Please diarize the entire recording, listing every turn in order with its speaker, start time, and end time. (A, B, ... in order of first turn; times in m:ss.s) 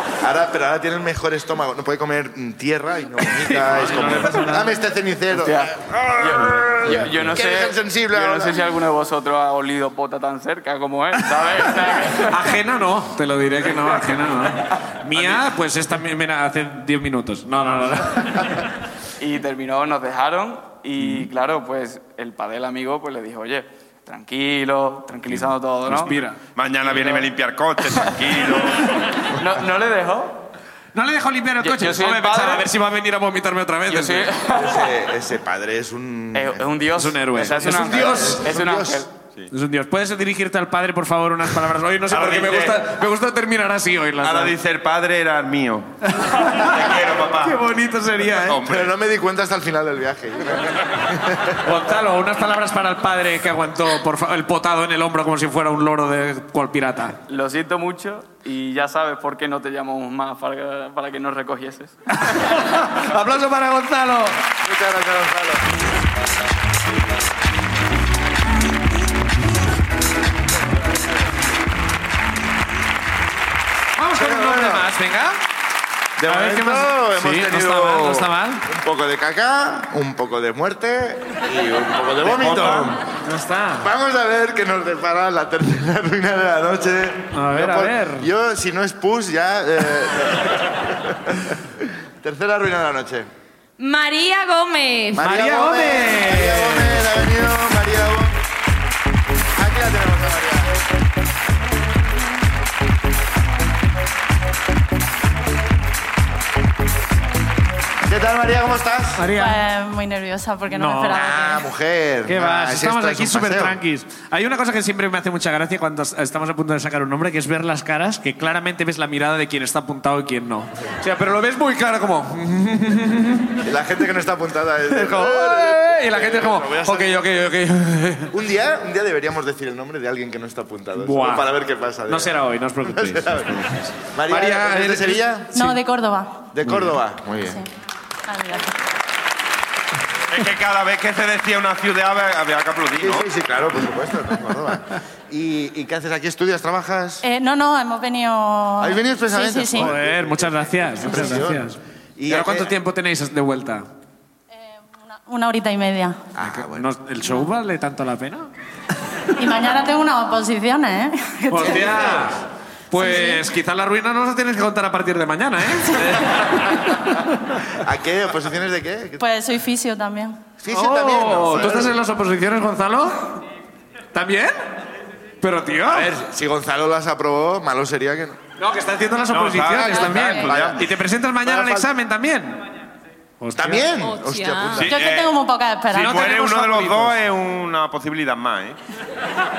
0:00.2-0:08.6 A
0:03.4-0:04.8 B
0:05.3-0:12.6 C
0:12.3-0:18.7 B
0:15.1-0:15.4 C
0:19.2-0:26.2 C
0:21.0-0:21.3 B
0:25.3-0:26.4 B
0:26.6-0:28.8 D
0:26.9-0:27.3 C
0:27.8-0:28.6 C
0:29.3-0:30.4 C
0:31.0-0:34.3 B
0:31.6-0:32.7 C
0:33.9-0:34.9 C
0:34.5-0:36.7 A
0:36.3-0:39.1 C
0:37.0-0:38.4 B
0:37.4-0:39.0 A
0:39.5-0:44.6 B
0:42.1-0:42.9 D
0:44.2-0:45.9 D
0:46.1-0:48.6 B
0:46.5-0:47.6 D
0:48.4-0:48.9 D
0:48.6-0:51.6 A
0:51.6-0:57.2 B
0:57.3-1:02.0 C
1:02.2-1:04.4 B
1:04.6-1:05.7 A
1:14.0-1:15.4 B
1:14.2-1:14.9 A
1:16.2-1:23.0 A
1:16.3-1:18.6 B
1:22.2-1:23.0 D
1:23.2-1:23.9 B
1:23.8-1:33.3 A
1:27.3-1:28.3 B
1:33.8-1:35.3 E
1:35.2-1:38.4 A
1:35.2-1:36.9 B
1:39.6-1:40.7 A
1:48.0-1:49.3 A
1:49.2-1:49.6 B
1:49.3-1:51.7 F
1:50.7-1:51.2 B
1:51.1-1:53.8 A
1:52.3-2:03.6 B
2:03.6-2:07.3 A
2:04.9-2:08.3 B
2:08.3-2:12.3 A
2:11.0-2:11.5 B
2:12.1-2:15.8 B
2:12.8-2:15.6 A
2:15.5-2:16.5 F
2:16.5-2:17.6 A
2:16.6-2:17.0 B
2:17.4-2:17.7 F
2:18.3-2:18.7 F
2:20.3-2:23.3 D
2:23.0-2:27.2 A
2:27.2-2:29.9 F
2:28.8-2:32.7 A
2:29.8-2:33.8 B
2:34.5-2:36.3 F
2:36.4-2:36.9 A
2:36.5-2:38.5 B
2:39.4-2:42.2 F
2:41.5-2:42.4 B
2:42.9-2:46.3 B
2:43.0-2:43.4 F
2:45.8-2:46.3 F
2:46.9-2:47.6 B
2:47.8-2:49.2 A
2:49.2-2:50.4 F
2:50.6-2:52.0 A
2:50.7-2:53.4 B
2:54.1-2:54.5 B
2:55.4-2:56.1 B
2:55.9-2:58.4 A
2:58.6-3:02.6 B
2:59.3-3:00.9 D
3:00.3-3:00.9 A
3:01.4-3:01.9 A
3:03.4-3:04.0 B
3:03.6-3:05.0 A
3:04.0-3:04.9 E
3:04.8-3:05.4 D
3:04.9-3:06.2 F
3:05.9-3:07.2 B
3:05.9-3:08.8 D